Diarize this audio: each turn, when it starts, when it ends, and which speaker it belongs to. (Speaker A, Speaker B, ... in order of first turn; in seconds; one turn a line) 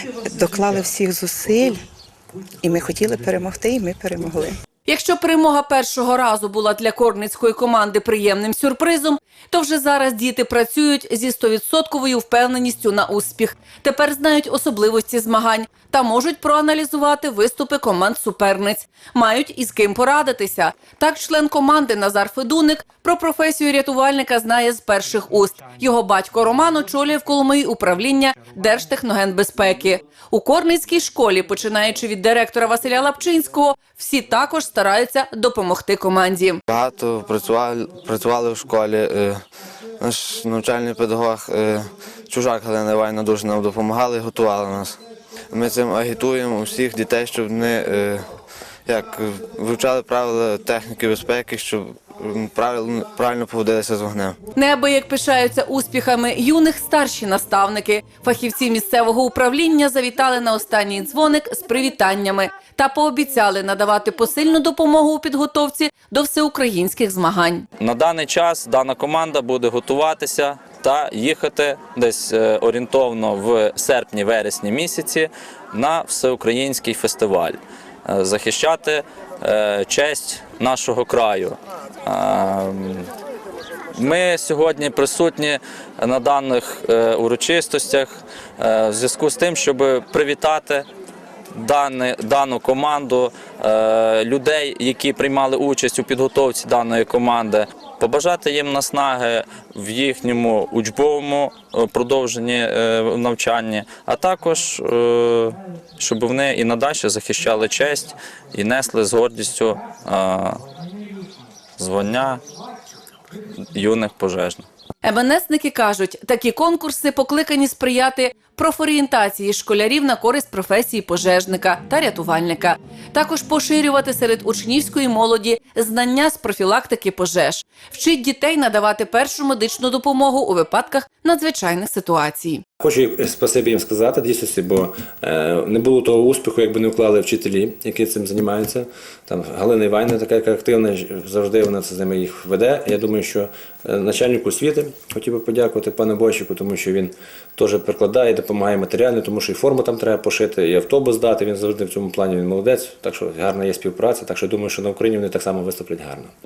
Speaker A: 0.2-1.8
Speaker A: 2.6-4.6
Speaker B: 4.9-36.6
Speaker C: 36.7-39.4
Speaker C: 40.0-45.0
Speaker C: 45.5-48.4
Speaker C: 48.9-54.4
Speaker B: 54.5-67.7
Speaker D: 67.8-83.1
Speaker D: 83.9-90.9
Speaker D: 91.5-110.6
Speaker D: 111.8-112.4
Speaker D: 113.8-114.7
Speaker B: 115.0-132.6
Speaker E: 132.8-156.3